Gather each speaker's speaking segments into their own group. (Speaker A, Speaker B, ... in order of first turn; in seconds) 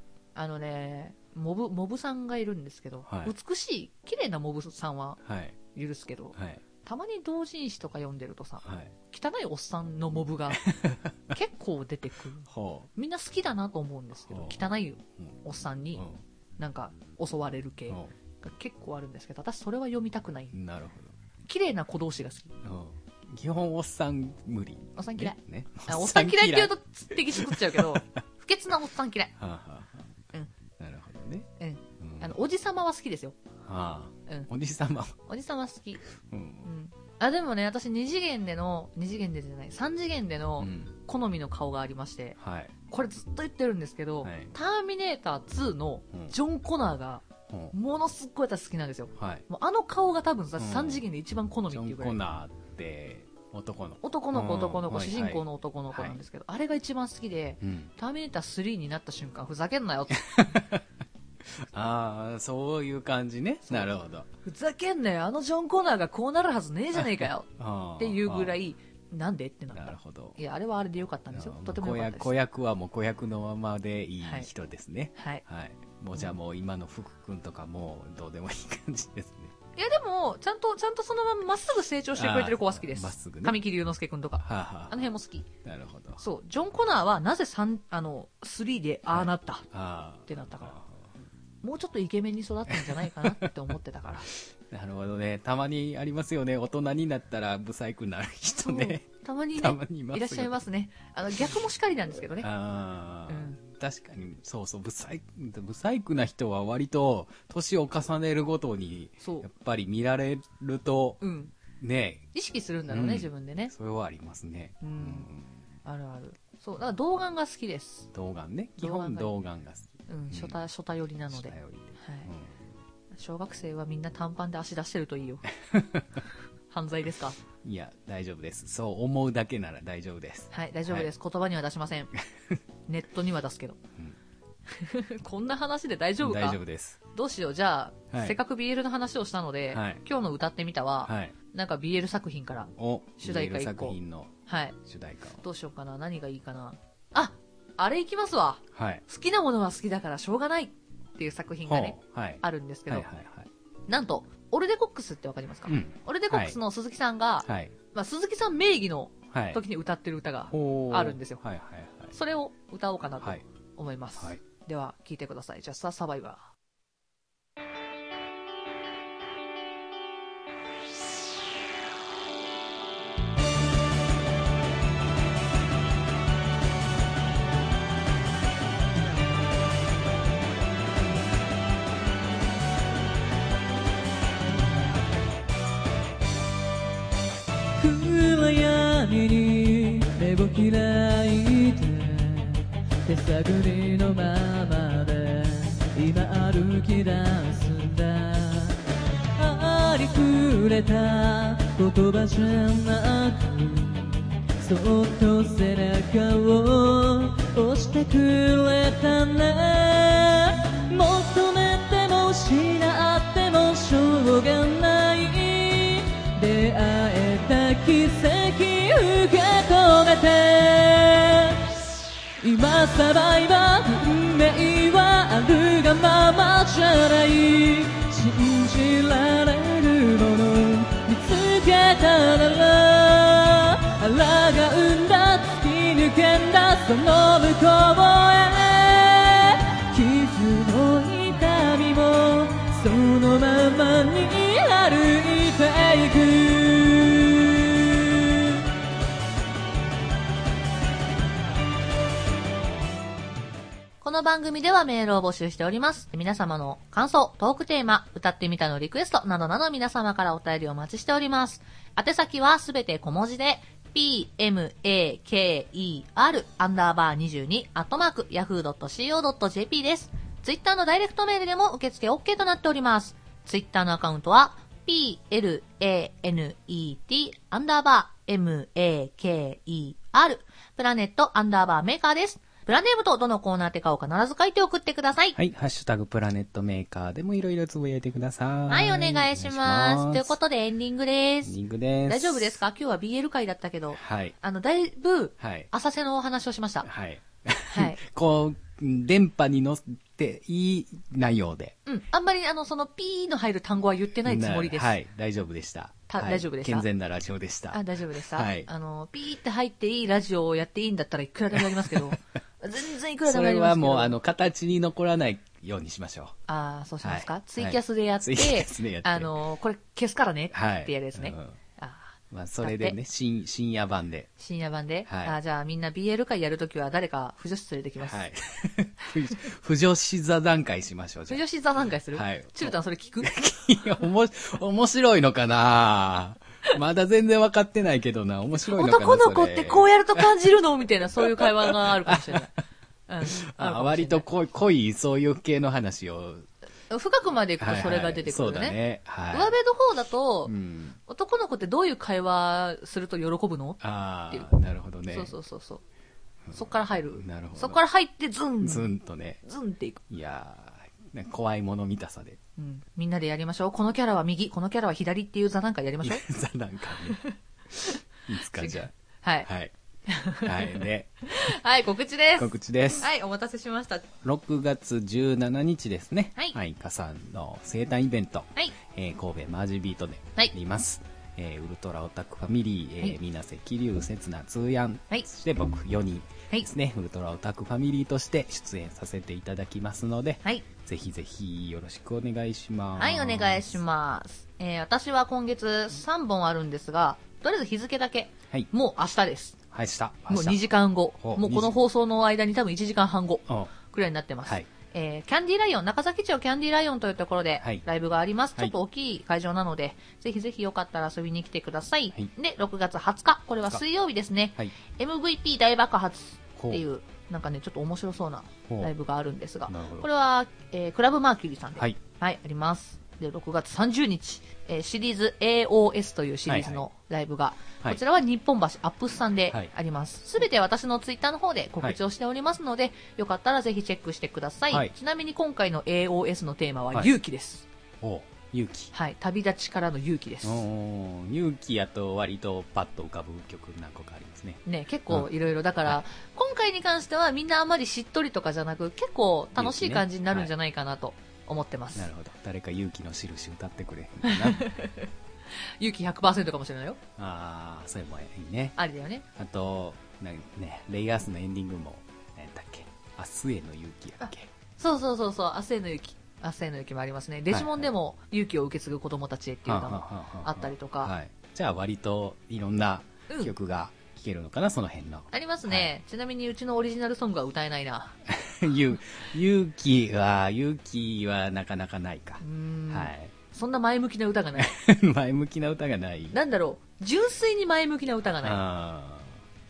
Speaker A: 0.3-5.2, 5.7-10.7, 11.3-16.0, 16.6-20.5, 21.5-22.6, 24.9-29.3, 31.6-33.4, 35.3-36.0, 36.6-42.4, 42.9-52.2, 54.0-60.4, 64.4-72.3, 74.2-74.5, 75.2-75.4, 79.8-85.5, 86.2-89.7, 90.3-90.8, 91.6-94.3, 98.6-102.5, 103.3-103.6, 109.2-109.5, 111.2-111.5, 112.3-113.7, 114.8-115.3, 115.8-118.1, 118.8-119.4, 120.1-122.3, 123.1-125.5, 126.7-127.4, 130.5-132.1, 132.9-133.8, 134.7-136.6, 137.1-144.8, 145.4-153.1, 153.9-161.4, 162.1-166.4, 254.0-285.4, 288.7-291.6, 292.1-296.9, 297.7-298.0, 301.9-304.9, 306.1-306.9, 307.7-314.2, 316.5-323.0, 324.4-328.2, 331.3-333.3, 338.7-342.5, 343.1-344.2, 346.9-348.8, 349.3-350.5, 351.1-354.5, 355.1-355.8, 356.5-358.9, 359.4-360.0, 362.6-366.2, 367.0-369.5, 370.1-374.1, 393.0-399.6, 400.3-437.7, 438.9-440.6, 444.6-452.1, 454.2-457.0, 458.8-459.2, 464.2-471.1, 473.3-473.5, 475.3-478.2, 482.4-484.8, 486.3-488.6
Speaker B: 3.1-3.3, 5.2-5.6, 6.3-6.6, 8.6-8.9, 10.5-11.1, 12.5-12.9, 14.3-15.4, 20.5-21.1, 22.6-28.1, 29.4-30.1, 30.8-31.5, 32.0-32.4, 33.6-35.2, 36.2-36.7, 40.6-41.0, 42.4-42.7, 44.2-44.5, 47.5-47.7, 49.2-49.4, 50.6-51.0, 51.7-56.2, 57.6-57.9, 60.3-60.8, 61.5-64.3, 66.9-68.6, 69.7-70.4, 71.3-79.5, 82.1-83.6, 84.4-85.1, 85.6-86.2, 89.1-91.0, 92.7-93.5, 94.4-100.6, 102.4-111.2, 111.8-112.3, 112.9-115.6, 118.1-120.6, 121.3-122.7, 125.7-126.1, 127.6-131.1, 136.2-137.0, 138.1-138.4, 139.7-140.0, 141.0-141.3, 142.8-144.3, 144.8-145.4, 148.7-149.0, 151.7-153.5, 155.7-156.6, 157.4-157.7, 159.3-159.6, 160.5-162.1, 285.4-290.4, 291.4-292.6, 293.9-294.3, 295.4-295.7, 296.8-301.8, 304.2-308.7, 313.2-316.4, 317.0-319.3, 320.5-321.6, 322.3-324.3, 325.1-325.4, 328.0-331.4, 332.1-340.6, 341.1-342.5, 343.2-346.5, 347.6-349.5, 350.5-351.0, 353.8-355.3, 356.4-357.8, 358.6-359.4, 360.1-362.4, 366.0-367.2, 368.3-368.9, 369.4-369.7, 370.4-371.1, 372.4-373.1, 374.2-393.8, 399.7-400.6, 401.2-401.7, 416.6-416.8, 419.7-420.1, 426.5-426.8, 438.0-438.9, 440.4-445.3, 449.5-450.5, 451.9-454.7, 457.2-458.8, 459.4-464.5, 467.5-467.9, 469.6-475.9, 478.3-483.3, 484.6-486.4, 488.4-489.4
Speaker C: 187.8-198.8, 199.4-221.6, 222.4-248.4